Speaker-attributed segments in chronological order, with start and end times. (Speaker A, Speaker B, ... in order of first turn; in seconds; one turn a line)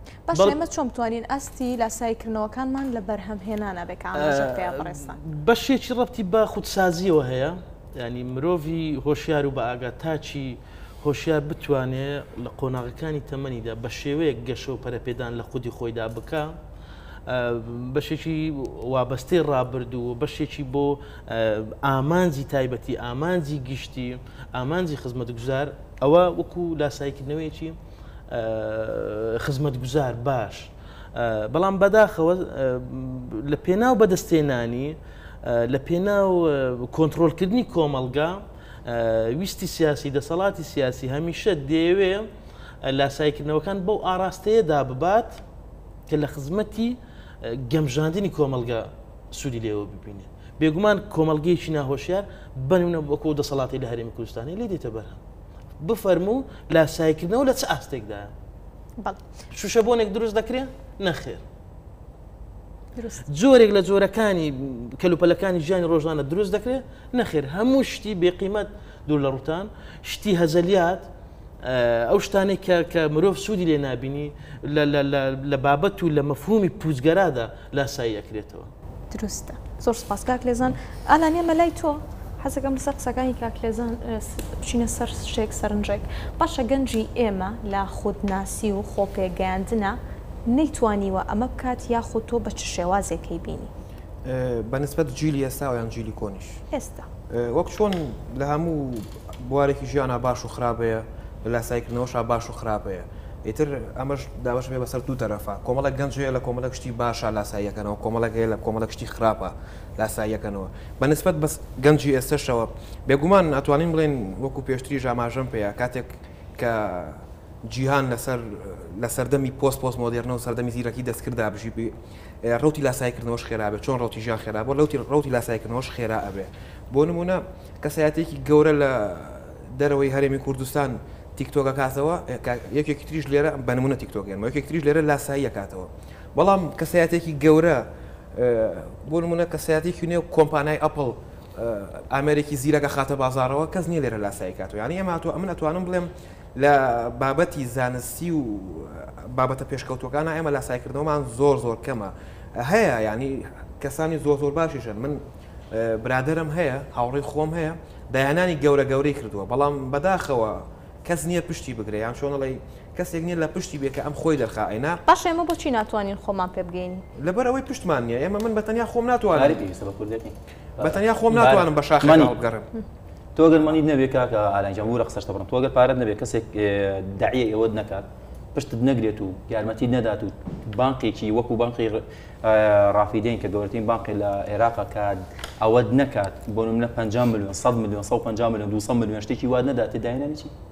Speaker A: 0.3-5.2
Speaker B: 4.1-16.5
Speaker B: 17.3-27.8
Speaker B: 28.3-42.3
Speaker B: 42.8-45.4
Speaker B: 46.1-55.2
Speaker B: 55.8-58.3
Speaker B: 59.5-61.4
Speaker A: 62.9-63.2
Speaker B: 63.3-71.1
Speaker B: 71.6-78.7
Speaker A: 79.1-93.7
Speaker C: 94.2-96.6
Speaker A: 96.7-97.1
Speaker C: 97.3-165.0
Speaker A: 165.1-167.0
Speaker C: 167.2-169.6
Speaker D: 169.3-172.4
Speaker C: 170.8-172.7
Speaker D: 173.3-190.5